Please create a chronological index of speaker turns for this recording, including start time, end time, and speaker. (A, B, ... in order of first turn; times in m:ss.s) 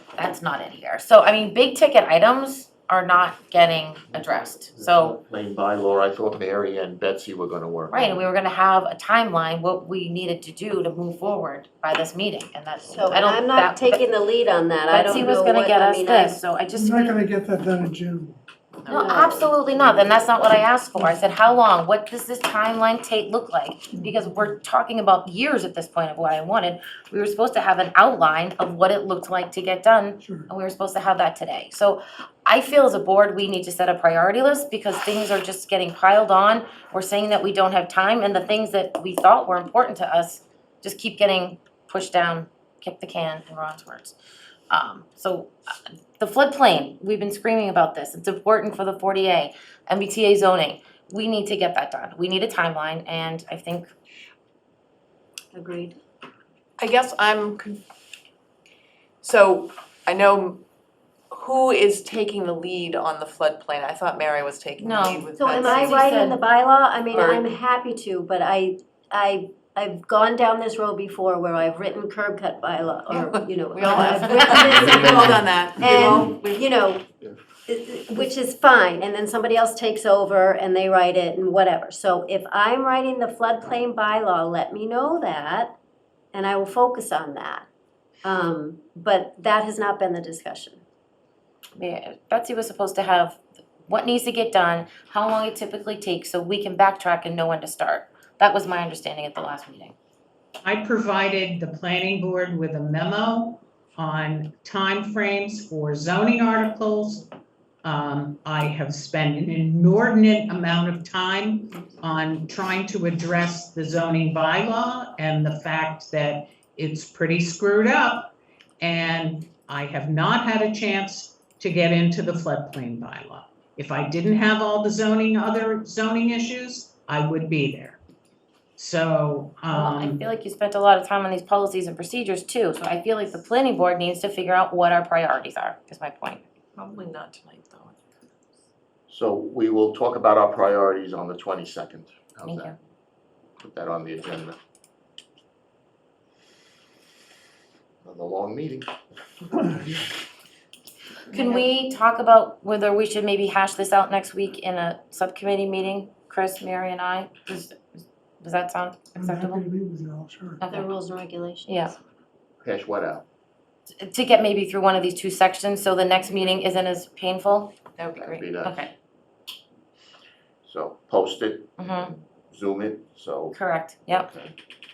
0:00.2-0:05.2 A
0:04.1-0:08.2 B
0:07.9-0:14.0 A
0:12.9-0:16.4 C
0:14.9-0:17.2 A
0:16.7-0:18.4 D
0:18.9-0:19.5 C
0:18.9-0:44.2 A
0:19.7-0:20.6 B
0:23.9-0:24.6 D
0:30.2-0:30.5 D
0:44.7-0:45.5 A
0:46.2-0:53.9 A
0:55.5-0:56.0 C
0:56.8-0:57.8 E
0:59.2-1:00.6 E
1:01.3-1:05.9 E
1:04.8-1:06.4 A
1:05.4-1:17.0 C
1:07.1-1:07.4 E
1:13.2-1:16.6 E
1:14.8-1:16.3 B
1:17.7-1:25.7 C
1:26.3-1:27.7 C
1:28.2-1:30.8 C
1:31.8-1:40.0 A
1:40.6-1:47.3 F
1:47.8-2:08.0 F
2:08.8-2:10.2 F
2:09.7-2:16.4 A
2:16.8-2:18.0 E
2:19.1-2:22.7 B
2:22.4-2:22.8 A
2:23.6-2:24.6 B
2:28.0-2:28.9 B
2:29.5-2:30.1 D
2:31.3-2:39.6 A
2:39.2-2:40.6 D
2:40.6-2:40.9 A
2:40.7-2:41.9 C
2:41.7-2:42.0 A
2:42.6-2:43.2 B
2:44.0-2:47.7 A
2:48.1-2:48.9 B
2:48.6-2:48.9 A
2:50.6-2:51.8 B
2:51.8-2:52.2 A
2:52.5-2:53.6 B
2:53.5-2:54.3 A
2:54.1-2:54.5 B